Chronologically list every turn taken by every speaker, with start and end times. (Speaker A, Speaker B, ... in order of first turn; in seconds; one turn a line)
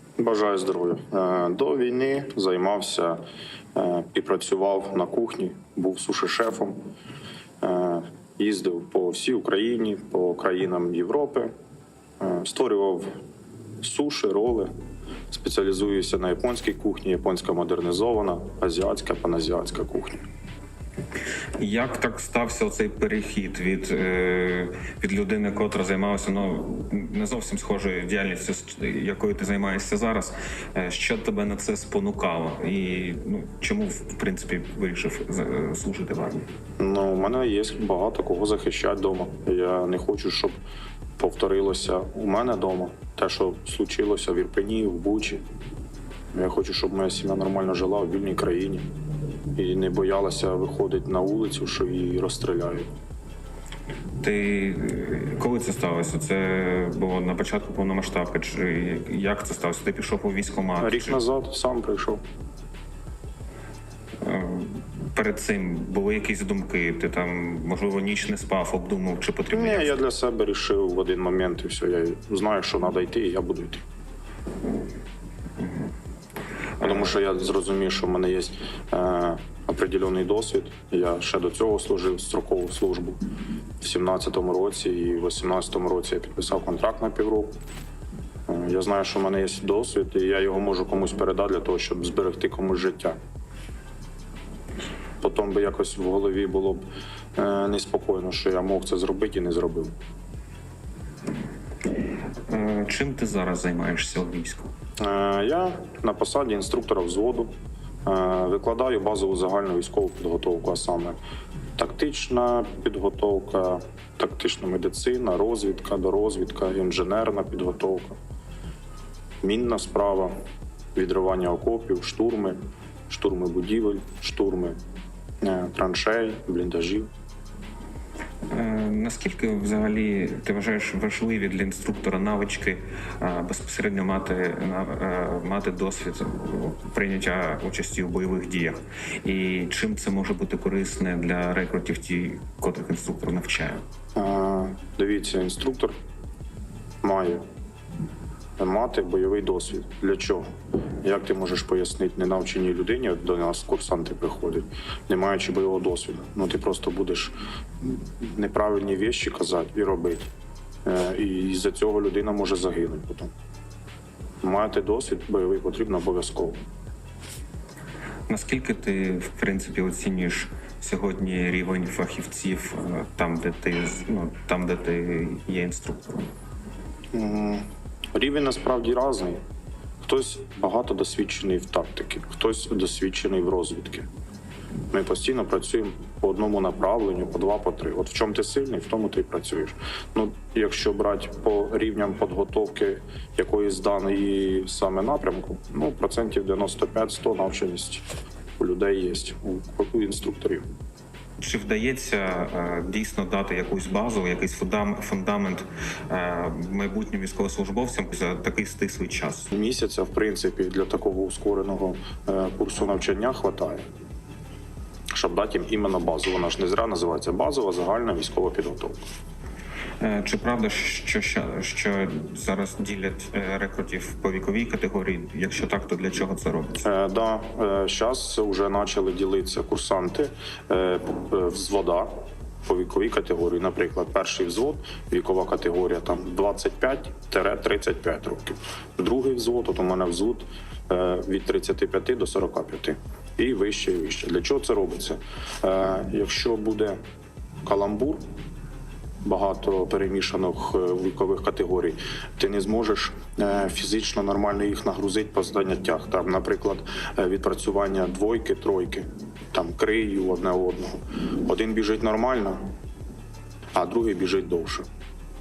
Speaker A: 0.2-3.2
Speaker A: 3.8-6.8
Speaker A: 7.6-11.5
Speaker A: 12.2-13.1
Speaker A: 13.8-14.7
Speaker A: 15.3-20.2
Speaker B: 21.6-36.5
Speaker A: 36.8-40.5
Speaker A: 41.2-45.4
Speaker A: 46.3-48.9
Speaker A: 49.5-52.9
Speaker B: 54.2-61.2
Speaker A: 60.8-62.2
Speaker B: 64.2-70.0
Speaker A: 69.5-73.8
Speaker A: 76.8-83.2
Speaker A: 83.8-87.5
Speaker A: 88.5-93.2
Speaker A: 95.2-96.8
Speaker A: 97.4-99.9
Speaker B: 102.5-104.7
Speaker A: 105.0-107.5
Speaker A: 108.1-111.2
Speaker A: 111.8-118.2
Speaker A: 119.4-120.3
Speaker A: 121.0-122.6
Speaker A: 123.1-124.8
Speaker A: 125.4-127.1
Speaker B: 128.5-143.8
Speaker A: 144.2-145.9
Speaker A: 147.0-147.4
Speaker A: 148.6-150.4
Speaker A: 151.0-160.3
Speaker A: 160.8-163.3
Speaker A: 164.4-166.6
Speaker B: 168.3-176.3
Speaker A: 177.1-177.6
Speaker A: 178.2-179.4
Speaker A: 180.0-184.1
Speaker A: 184.9-198.0
Speaker A: 198.6-200.7
Speaker B: 201.4-209.5
Speaker A: 209.5-213.8
Speaker A: 215.1-219.1
Speaker B: 220.0-226.8
Speaker A: 226.8-232.1
Speaker A: 232.7-247.0
Speaker A: 247.6-248.2
Speaker A: 249.2-262.6
Speaker A: 263.7-264.9